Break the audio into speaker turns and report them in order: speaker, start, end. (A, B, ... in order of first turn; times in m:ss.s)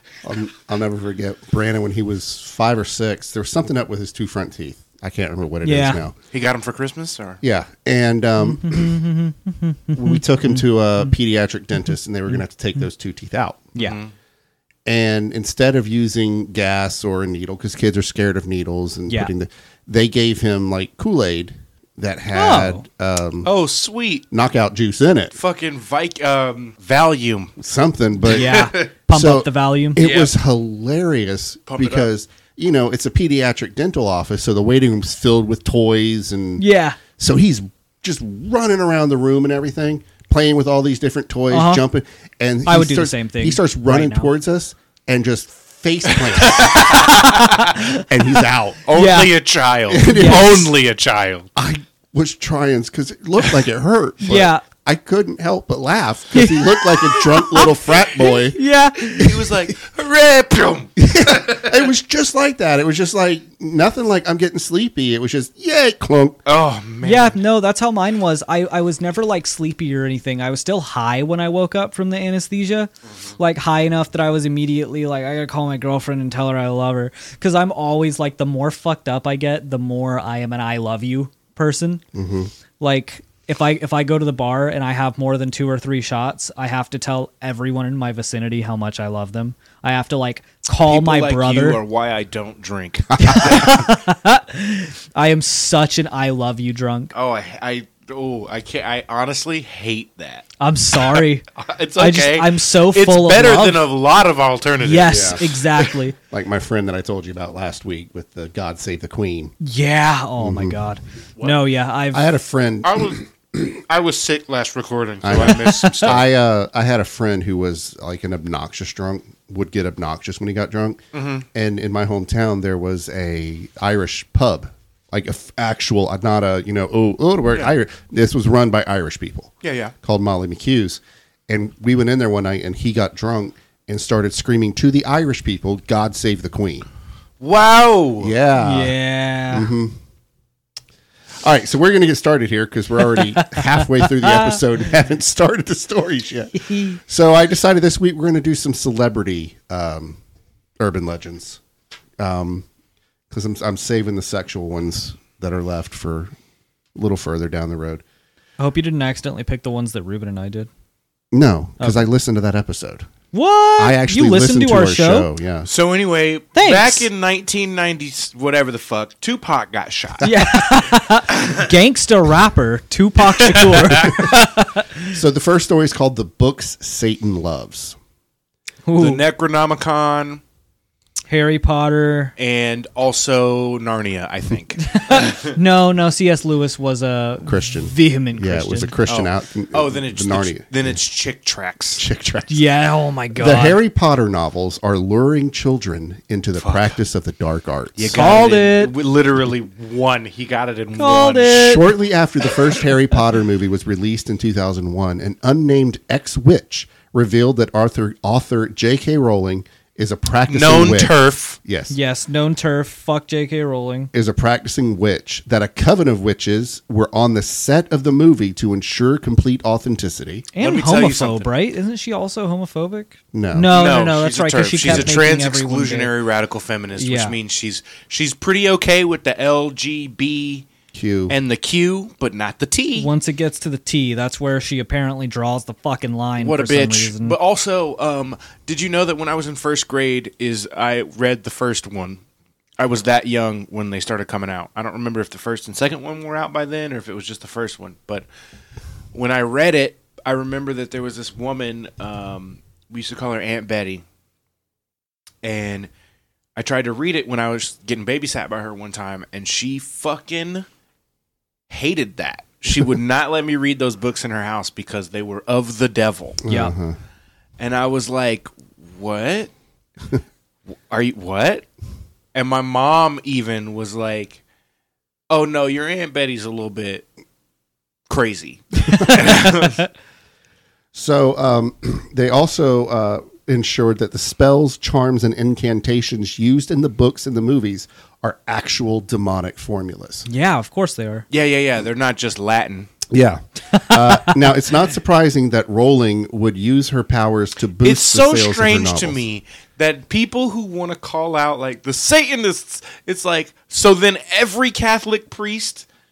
0:00.2-0:06.2 A
0:05.6-0:06.0 B
0:06.3-0:07.4 C
0:07.4-0:09.0 A
0:08.4-0:11.1 B
0:09.9-0:13.7 A
0:13.8-0:14.1 C
0:14.8-0:23.5 A
0:22.3-0:22.8 B
0:23.4-0:24.2 C
0:24.3-0:25.3 A
0:25.3-0:27.5 C
0:27.6-0:48.8 A
0:28.2-0:30.0 B
0:28.3-0:28.9 C
0:30.0-0:30.3 C
0:31.7-0:32.1 C
0:36.6-0:37.0 B
0:41.5-0:41.8 B
0:42.6-0:44.3 B
0:46.1-0:47.7 C
0:46.9-0:48.0 B
0:48.8-0:51.5 C
0:48.9-0:49.3 B
0:49.9-0:50.7 A
0:50.1-0:50.5 B
0:51.6-0:58.6 A
0:54.2-0:54.6 B
0:56.3-0:57.7 B
0:58.2-0:59.4 B
0:59.1-1:01.7 C
1:01.0-1:06.4 A
1:06.4-1:07.4 C
1:07.0-1:22.0 B
1:22.1-1:22.5 A
1:22.8-1:31.8 B
1:30.8-1:33.8 C
1:33.2-1:37.1 B
1:37.1-1:45.9 C
1:40.6-1:41.4 B
1:42.0-1:43.8 B
1:44.8-1:46.1 B
1:45.1-1:45.5 A
1:46.3-1:49.5 A
1:49.6-1:52.3 B
1:50.4-1:50.8 A
1:52.1-1:53.6 A
1:52.8-1:56.3 C
1:55.2-2:01.0 A
2:01.1-2:01.4 C
2:01.5-2:16.9 A
2:09.6-2:09.9 C
2:17.4-2:18.3 C
2:18.2-2:18.9 A
2:18.6-2:19.7 B
2:19.5-2:20.0 A
2:21.4-2:30.2 A
2:23.1-2:24.6 B
2:26.6-2:27.0 B
2:30.8-2:31.6 A
2:32.2-2:32.6 A
2:33.3-2:36.3 A
2:37.0-2:38.0 A
2:38.6-2:40.7 B
2:41.3-2:43.1 A
2:41.8-2:42.0 B
2:43.3-2:45.3 B
2:43.8-2:45.7 A
2:45.7-2:50.6 C
2:46.5-2:47.1 B
2:50.2-2:55.2 B
2:53.4-2:54.2 C
2:55.1-2:58.0 A
2:58.8-2:59.2 B
2:59.0-3:00.4 C
3:01.3-3:02.3 B
3:02.4-3:05.6 C
3:04.8-3:08.9 B
3:07.4-3:10.9 A
3:09.0-3:12.0 C
3:12.0-3:12.6 A
3:12.5-3:13.8 B
3:13.3-3:18.2 A
3:16.6-3:17.0 C
3:18.0-3:21.8 C
3:18.1-3:18.9 B
3:21.0-3:21.9 B
3:21.5-3:31.9 A
3:30.5-3:31.6 C
3:31.9-3:34.1 B
3:34.1-3:40.4 A
3:40.5-3:46.1 B
3:40.6-3:41.5 C
3:43.3-3:43.7 A
3:43.7-3:50.7 C
3:44.8-3:45.1 A
3:47.0-3:47.4 B
3:50.9-3:51.3 A
3:51.3-3:53.1 C
3:53.0-3:57.4 B
3:56.4-4:02.2 C
4:02.8-4:08.2 C
4:09.1-4:14.0 C
4:15.4-4:15.9 C
4:16.6-4:20.6 C
4:21.7-4:26.4 C
4:26.4-4:27.0 A
4:26.5-4:26.7 B
4:27.6-4:29.5 C
4:30.9-4:31.6 C
4:32.3-4:34.4 C
4:35.3-4:37.1 C
4:38.1-4:39.8 C
4:38.9-4:39.2 B
4:40.9-4:50.2 A
4:50.2-4:51.2 B
4:51.3-4:52.9 C
4:53.1-4:59.2 A
4:53.7-4:54.3 B
4:57.8-5:05.8 C